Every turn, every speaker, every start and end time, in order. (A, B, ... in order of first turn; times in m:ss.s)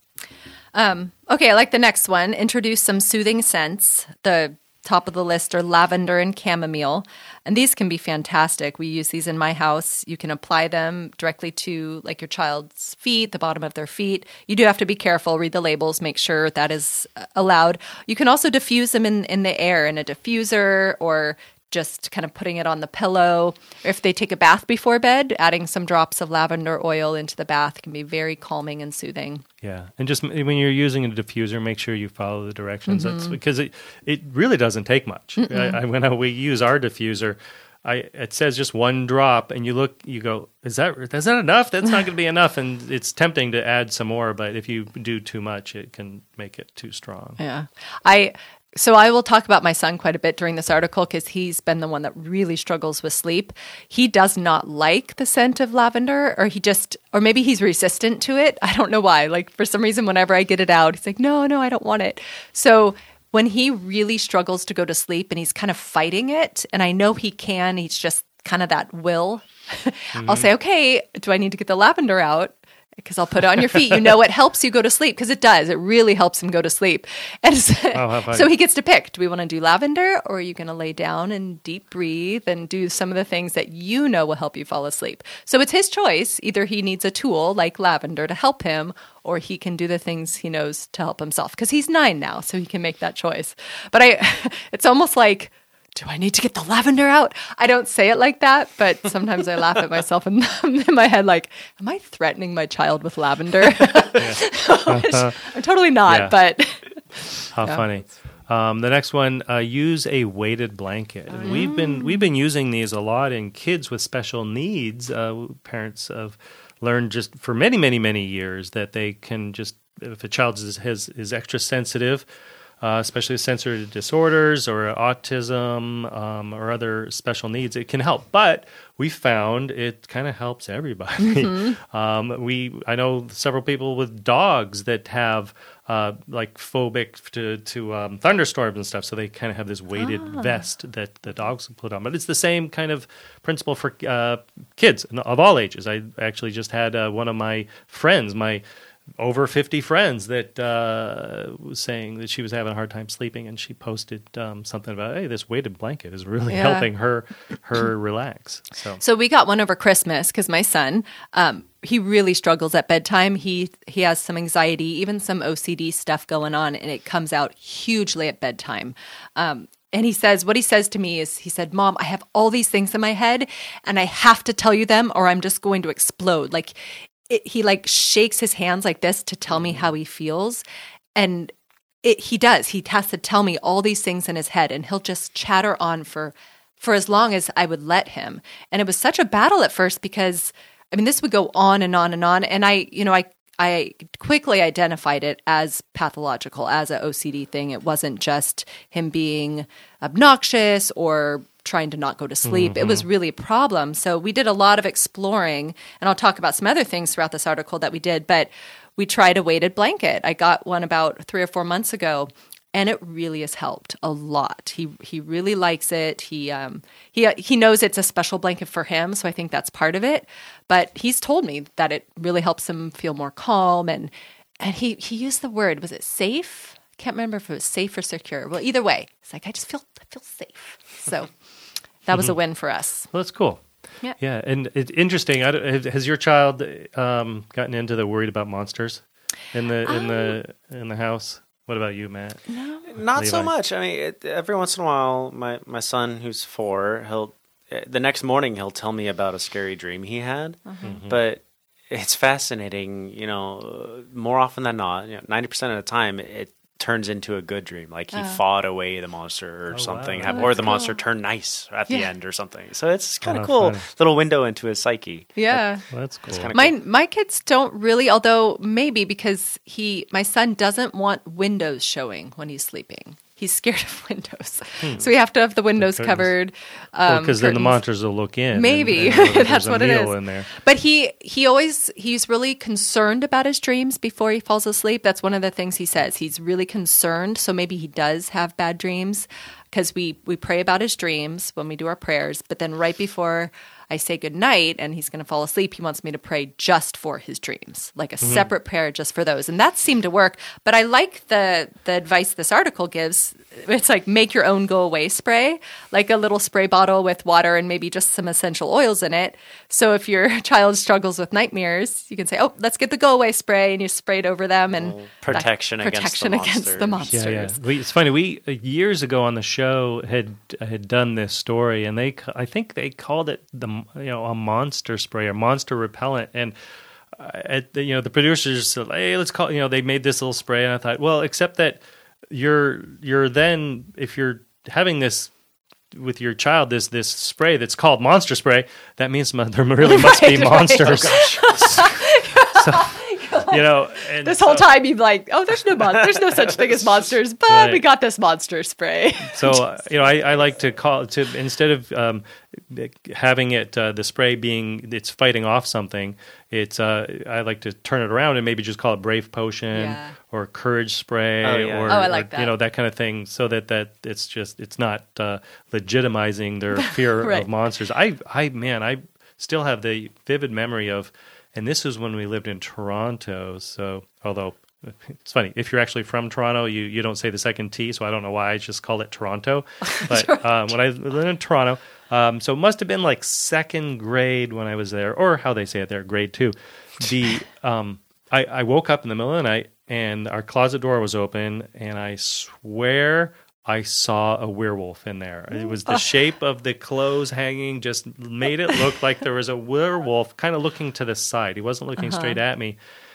0:00.7-0:29.4 A
0:29.6-0:47.4 B
0:32.9-0:33.4 A
0:35.4-0:35.8 A
0:47.4-1:47.8 A
1:10.2-1:10.5 B
1:17.9-1:18.5 B
1:44.2-1:45.5 B
1:46.1-1:46.4 B
1:47.5-2:02.2 B
1:51.3-1:52.2 A
2:02.8-2:28.6 B
2:11.2-2:11.8 A
2:20.0-2:20.5 A
2:29.2-2:39.0 B
2:36.5-2:36.9 A
2:39.0-2:56.8 A
2:57.3-3:00.6 A
3:01.2-3:01.5 A
3:02.0-3:51.3 A
3:22.4-3:23.1 B
3:52.1-3:53.1 A
3:53.1-3:53.6 B
3:54.2-4:02.5 B
3:59.8-4:00.4 A
4:02.5-4:02.8 A
4:02.9-4:25.4 C
4:03.1-4:03.5 B
4:10.7-4:11.0 A
4:10.8-4:11.2 B
4:18.1-4:18.4 A
4:19.7-4:20.5 B
4:20.3-4:21.0 A
4:23.2-4:23.8 B
4:25.4-4:25.9 A
4:25.5-4:26.5 B
4:26.3-4:26.8 C
4:26.5-4:37.8 A
4:35.8-4:36.3 B
4:37.1-4:40.5 B
4:38.6-5:17.6 A
4:58.2-4:58.5 B
5:14.7-5:17.1 C
5:17.1-5:26.6 B
5:27.2-5:31.8 B
5:32.3-5:35.3 B
5:35.9-5:41.9 B
5:39.8-5:49.7 A
5:40.8-5:41.9 C
5:42.6-5:42.9 B
5:43.5-5:44.7 B
5:46.1-5:46.8 C
5:47.5-5:47.8 B
5:49.3-6:42.8 B
5:59.7-6:00.2 A
6:01.4-6:02.1 C
6:01.9-6:02.5 A
6:06.9-6:07.5 A
6:19.9-6:20.7 A
6:35.6-6:36.0 A
6:42.0-6:42.4 A